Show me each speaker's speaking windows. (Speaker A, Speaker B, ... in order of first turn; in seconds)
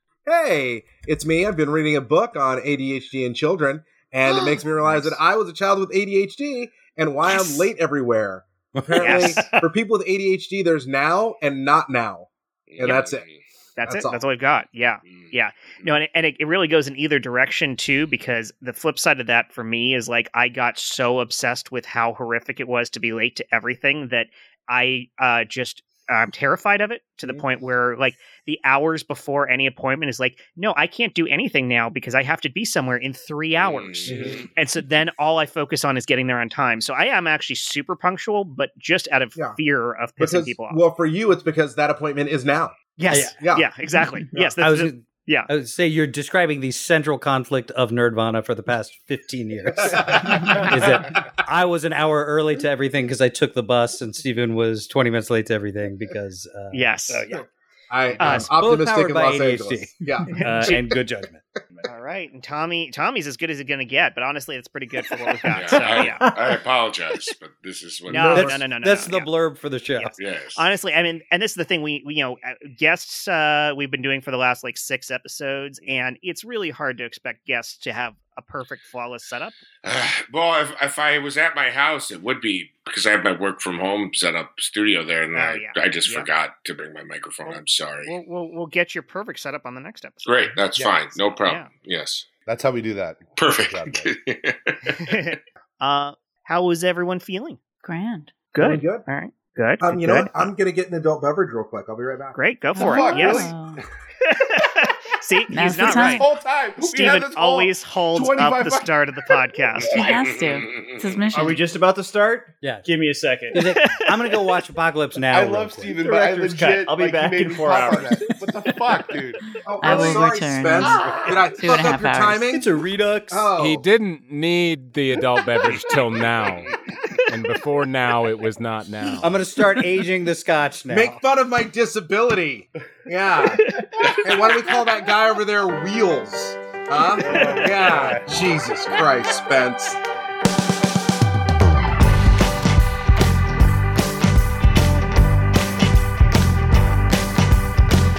Speaker A: 0.3-12.3, 12.8-13.2, 13.8-14.2, 40.2-42.8, 43.4-43.7, 49.8-50.9, 57.9-60.8, 68.2-68.5, 98.6-99.0, 99.8-103.5, 119.6-122.8, 123.3-123.9, 130.9-140.0
Speaker B: 4.3-5.2, 7.3-7.7, 9.0-9.6, 13.8-40.8, 43.0-45.5, 56.7-57.3, 58.2-58.5, 61.9-66.2, 68.1-69.3, 70.0-79.6, 85.3-86.3, 87.4-91.7, 94.8-97.6, 98.5-100.5, 102.3-103.5, 104.2-106.3, 106.8-110.0, 133.4-134.1
Speaker C: 8.8-9.4, 43.1-43.4, 44.6-57.4, 58.2-61.5, 68.1-70.2, 113.5-116.0, 120.7-121.0, 122.4-123.5, 129.2-131.2
Speaker D: 12.7-13.4, 15.1-15.9, 33.6-34.5, 65.5-68.6, 70.2-70.6, 79.8-88.1, 90.2-92.3, 93.4-95.3, 109.8-111.3, 125.9-126.9, 134.0-134.3
Speaker E: 34.1-34.4, 111.3-113.7, 116.0-118.4, 120.0-120.2, 120.9-121.4
Speaker F: 92.5-94.1, 102.8-103.5, 105.9-108.9, 115.3-119.4, 137.3-138.2
Speaker G: 97.8-98.3, 102.7-103.8, 105.5-106.3, 109.8-111.6, 119.8-122.5
Speaker H: 123.6-126.7, 127.3-129.3